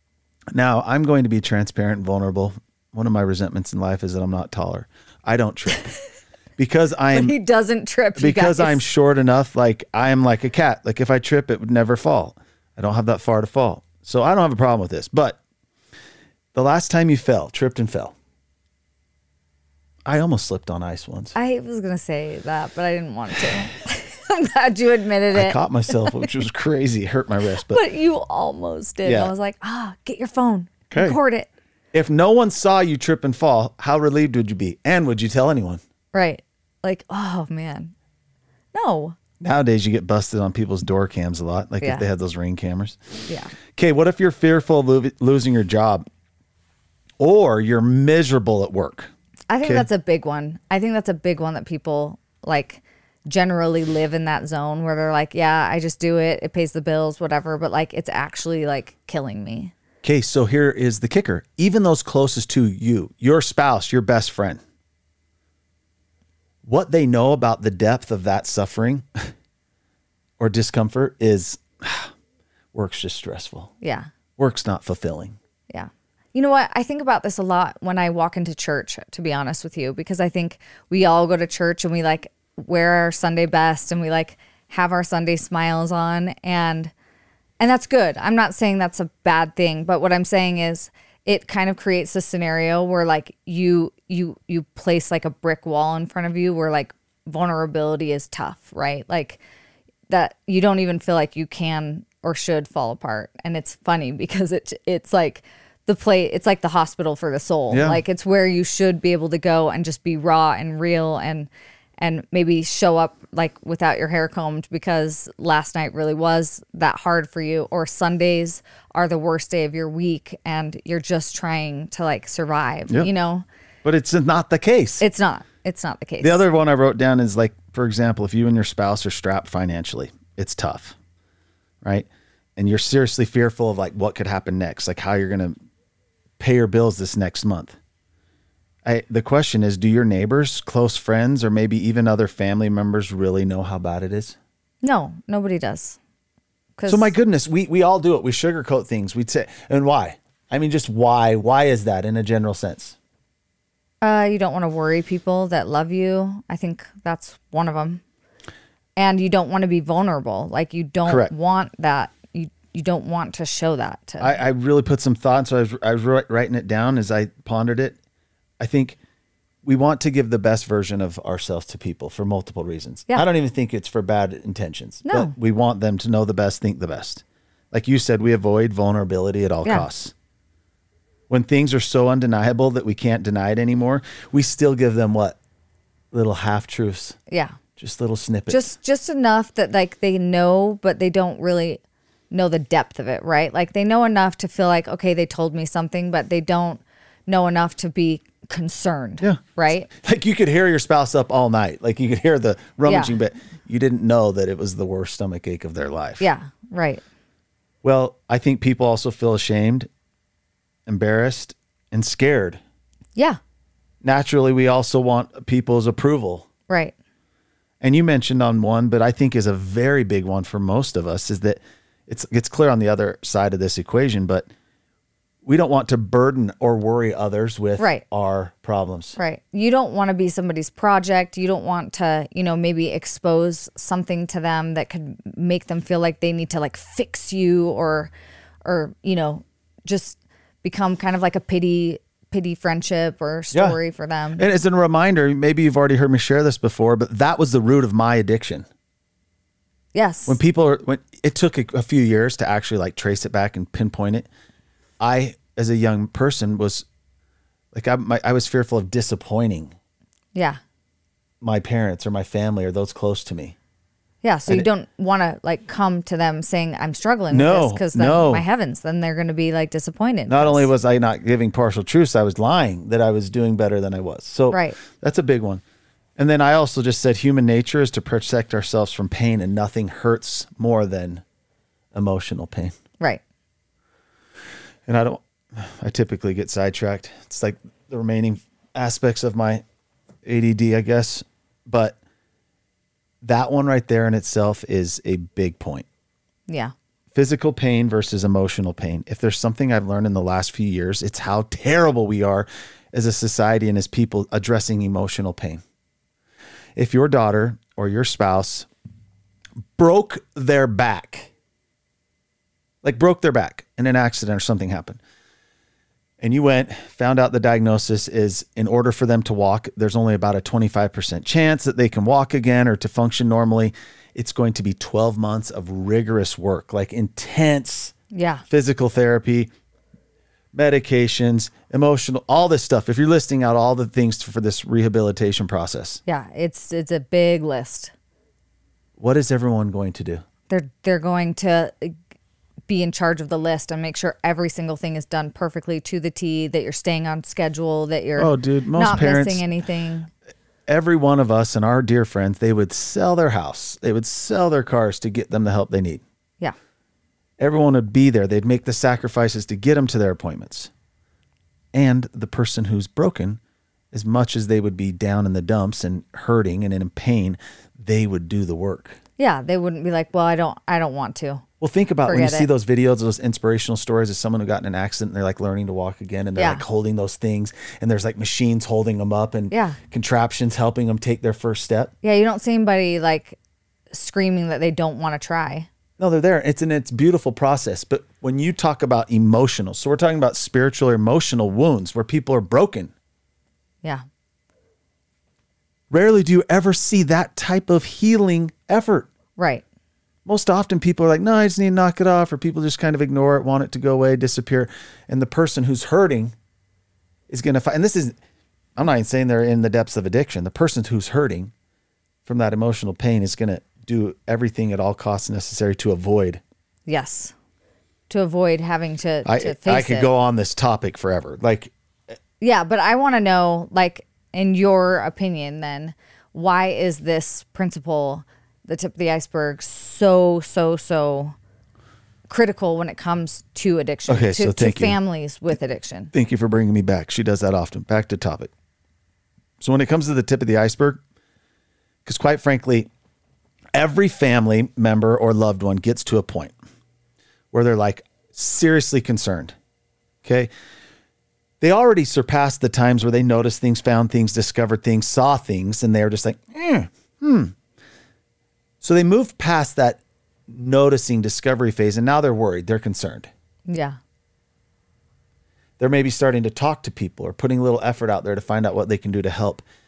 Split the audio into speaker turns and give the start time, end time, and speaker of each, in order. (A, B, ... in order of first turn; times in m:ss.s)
0:00.5-0:05.9 A
0:06.6-0:07.4 A
0:07.1-0:08.8 B
0:08.2-0:15.4 A
0:16.6-0:18.1 A
0:20.1-0:21.3 A
0:21.4-0:26.3 B
0:25.3-0:27.8 A
0:27.7-0:31.5 B
0:29.0-0:29.3 A
0:30.9-0:31.2 A
0:31.9-0:35.8 A
0:36.1-0:37.9 B
0:38.7-0:39.2 B
0:39.4-0:43.0 A
0:43.3-0:43.5 B
0:43.8-0:46.0 A
0:47.2-0:49.1 A
0:49.5-0:59.7 B
1:00.0-1:04.6 A
1:06.6-1:09.3 A
1:10.4-1:12.1 A
1:12.7-1:13.7 A
1:13.8-1:14.1 B
1:14.4-1:15.4 A
1:15.7-1:26.9 B
1:27.6-1:39.4 B
1:40.1-2:03.4 B
1:47.7-1:48.0 A
2:03.8-2:05.0 A
2:05.0-2:06.4 B
2:06.2-2:11.0 A
2:11.8-2:15.6 A
2:16.4-2:17.8 A
2:18.8-2:24.4 A
2:24.8-2:26.0 B
2:26.8-2:27.1 B
2:26.9-2:33.0 A
2:34.0-2:38.0 B
2:39.0-2:44.4 B
2:41.1-2:41.3 A
2:44.2-2:48.0 A
2:48.6-2:49.0 A
2:49.6-3:00.1 A
2:55.0-2:55.3 B
3:01.3-3:05.4 A
3:06.1-3:07.2 A
3:07.3-3:07.6 B
3:07.8-3:08.8 A
3:08.5-3:19.9 B
3:19.2-3:26.2 A
3:22.9-3:23.1 B
3:26.2-3:27.0 B
3:27.8-3:29.9 A
3:30.9-3:32.6 A
3:34.0-3:36.5 A
3:36.7-3:36.9 B
3:37.8-3:44.5 A
3:45.4-3:49.2 A
3:47.8-3:48.0 B
3:49.2-3:58.1 B
3:58.6-4:04.4 B
4:03.5-4:03.8 A
4:04.4-4:08.7 A
4:09.9-4:10.4 B
4:10.3-4:14.3 A
4:15.0-4:16.9 A
4:17.7-4:19.7 A
4:20.4-4:20.6 B
4:21.4-4:23.6 A
4:24.2-4:30.7 B
4:27.3-4:28.4 A
4:30.3-4:35.6 A
4:34.5-4:34.8 B
4:36.2-4:41.2 A
4:41.9-4:42.7 A
4:44.9-4:49.6 A
4:50.2-4:52.0 A
4:53.2-4:55.9 A
4:57.1-5:05.6 A
5:06.8-5:08.7 A
5:09.8-5:11.3 A
5:12.8-5:15.0 A
5:16.2-5:27.9 A
5:28.1-5:28.4 B
5:28.5-5:29.5 A
5:30.5-5:36.0 A
5:36.1-5:37.9 B
5:39.0-5:40.2 A
5:40.5-5:42.0 B
5:42.7-5:50.1 B
5:48.2-5:49.5 A
5:50.7-5:56.0 A
5:57.4-6:00.7 A
6:01.7-6:03.4 A
6:03.9-6:09.0 A
6:09.2-6:11.4 B
6:11.6-6:21.9 A
6:12.1-6:12.5 B
6:16.4-6:16.6 B
6:19.5-6:19.8 B
6:22.0-6:23.4 B
6:23.9-6:25.7 B
6:26.0-6:32.9 A
6:35.9-6:39.1 A
6:39.4-6:39.6 B
6:40.3-6:46.3 A
6:47.3-6:48.2 A
6:48.8-6:51.5 A
6:52.2-6:56.4 A
6:56.9-6:57.3 B
6:58.1-7:00.1 B
6:59.2-7:01.7 A
7:02.4-7:11.4 B
7:12.3-7:16.1 B
7:14.1-7:15.0 A
7:16.1-7:18.5 A
7:19.6-7:21.0 A
7:22.0-7:22.9 A
7:23.7-7:26.5 A
7:27.5-7:29.5 A
7:30.2-7:30.5 A
7:31.6-7:37.6 A
7:38.8-7:43.3 A
7:43.7-7:44.0 B
7:45.8-7:49.6 A